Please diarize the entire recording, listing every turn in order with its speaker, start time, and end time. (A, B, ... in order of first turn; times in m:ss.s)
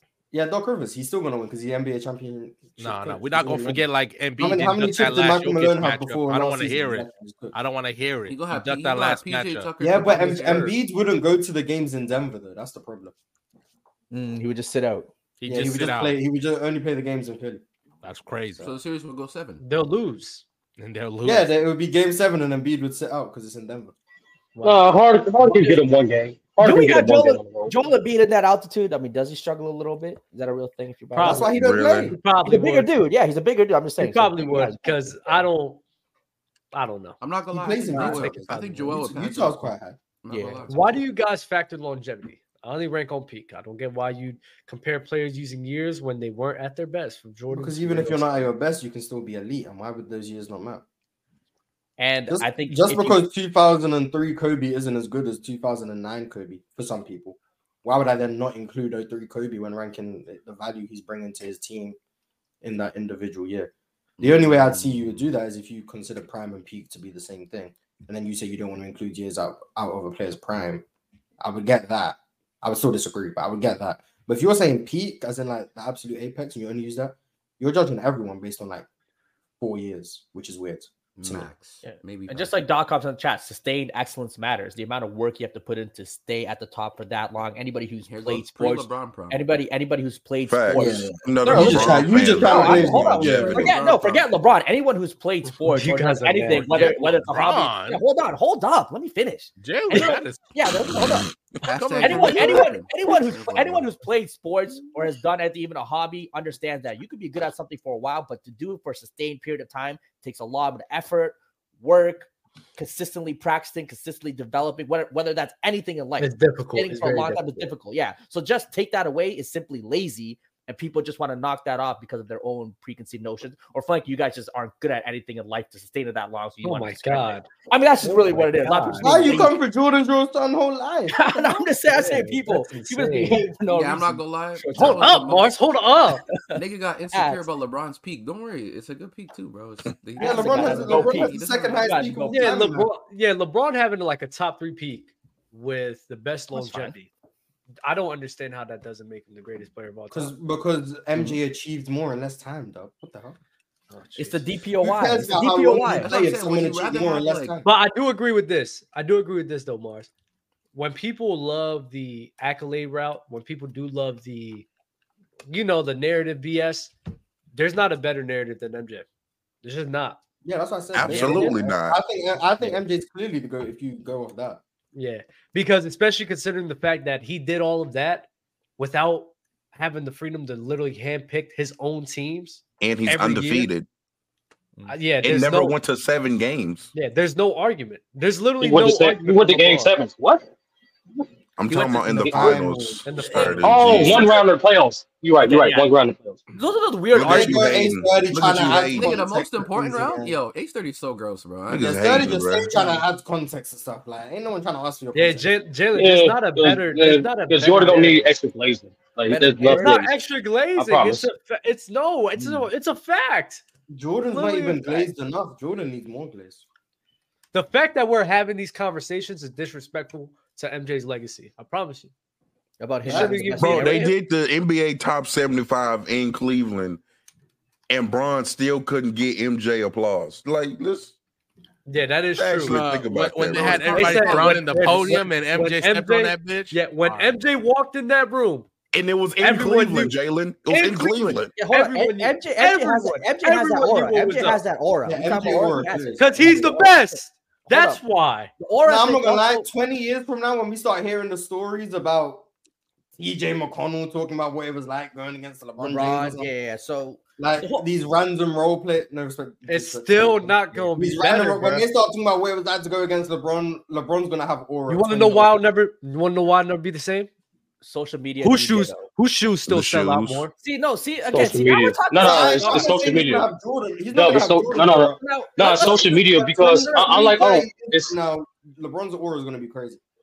0:00.3-0:03.8 A
0:02.8-0:09.7 B
0:04.4-0:07.5 A
0:08.3-0:10.8 C
0:09.8-0:13.1 A
0:14.1-0:15.1 D
0:15.4-0:16.2 B
0:15.4-0:17.6 A
0:18.0-0:18.7 B
0:18.6-0:19.6 C
0:19.6-0:20.4 E
0:20.8-0:21.5 B
0:21.2-0:23.9 A
0:24.5-0:24.8 E
0:24.6-0:27.7 F
0:25.4-0:25.9 D
0:26.6-0:31.5 D
0:31.1-0:32.9 E
0:31.2-0:32.2 A
0:31.5-0:32.1 G
0:32.4-0:35.5 D
0:34.0-0:35.8 E
0:36.7-0:37.2 E
0:37.2-0:41.0 C
0:37.5-0:40.0 A
0:37.9-0:38.6 E
0:40.3-0:40.8 D
0:40.7-0:48.5 E
0:47.5-0:50.8 A
0:52.0-0:53.2 D
0:52.3-1:02.0 A
1:02.6-1:10.8 A
1:04.2-1:05.3 C
1:11.4-1:18.8 A
1:19.6-1:21.5 A
1:21.2-1:22.6 C
1:21.8-1:41.3 D
1:28.0-1:29.6 C
1:30.5-1:33.8 G
1:30.7-1:33.6 A
1:32.6-1:34.3 C
1:35.6-1:36.7 E
1:36.4-1:38.0 B
1:39.6-1:40.5 B
1:41.0-1:41.3 G
1:41.6-1:43.9 C
1:41.7-1:42.4 B
1:42.0-2:09.5 D
1:56.2-1:57.7 E
2:06.6-2:07.5 E
2:08.0-2:09.5 E
2:09.0-2:11.3 A
2:11.1-2:15.2 D
2:11.9-2:13.4 E
2:13.6-2:15.6 C
2:14.8-2:16.2 E
2:16.3-2:16.6 D
2:16.5-2:22.1 C
2:17.1-2:17.4 D
2:20.2-2:22.5 D
2:20.2-2:22.9 A
2:22.3-2:27.1 E
2:26.5-2:26.9 D
2:27.8-2:30.3 E
2:30.1-2:33.4 A
2:33.9-2:34.4 E
2:34.1-2:36.1 D
2:34.8-2:37.7 A
2:35.7-2:37.6 C
2:37.6-2:40.1 E
2:40.7-2:44.6 E
2:45.5-2:46.9 E
2:47.5-2:49.0 E
2:49.6-2:50.2 E
2:50.4-2:54.6 A
2:50.9-2:52.0 G
2:51.0-2:51.6 D
2:54.9-3:03.7 E
3:02.8-3:03.9 G
3:04.9-3:05.8 E
3:05.2-3:06.9 G
3:06.9-3:09.9 E
3:08.6-3:10.4 F
3:11.6-3:14.3 G
3:12.0-3:13.6 A
3:12.2-3:12.5 F
3:13.0-3:14.3 E
3:13.6-3:16.4 F
3:15.4-3:15.9 D
3:16.5-3:17.9 D
3:17.1-3:19.2 G
3:17.2-3:20.4 A
3:18.9-3:22.0 C
3:21.7-3:22.9 G
3:21.7-3:25.5 A
3:25.1-3:28.3 E
3:26.0-3:30.1 F
3:29.3-3:30.1 D
3:29.6-3:33.6 E
3:30.8-3:31.3 F
3:33.9-3:36.6 A
3:34.3-3:35.1 E
3:37.5-3:42.1 E
3:42.8-3:44.1 D
3:43.0-3:44.0 E
3:43.0-3:43.6 A
3:43.5-3:47.0 G
3:47.9-3:51.1 G
3:51.8-3:52.8 E
3:52.4-3:54.7 G
3:52.7-3:57.4 B
3:53.6-3:58.7 E
3:58.9-4:01.5 G
3:59.4-4:00.2 E
4:00.7-4:04.6 E
4:01.5-4:08.0 D
4:05.0-4:06.8 A
4:06.2-4:08.5 E
4:08.6-4:09.7 D
4:08.8-4:12.4 A
4:13.2-4:16.5 A
4:15.8-4:17.8 D
4:17.4-4:25.6 A
4:19.7-4:21.9 E
4:24.9-4:27.3 E
4:27.8-4:29.0 D
4:28.4-4:30.5 E
4:29.7-4:30.5 G
4:30.6-4:33.1 D
4:31.3-4:33.4 F
4:32.1-4:40.0 A
4:34.1-4:38.1 F
4:35.2-4:37.3 D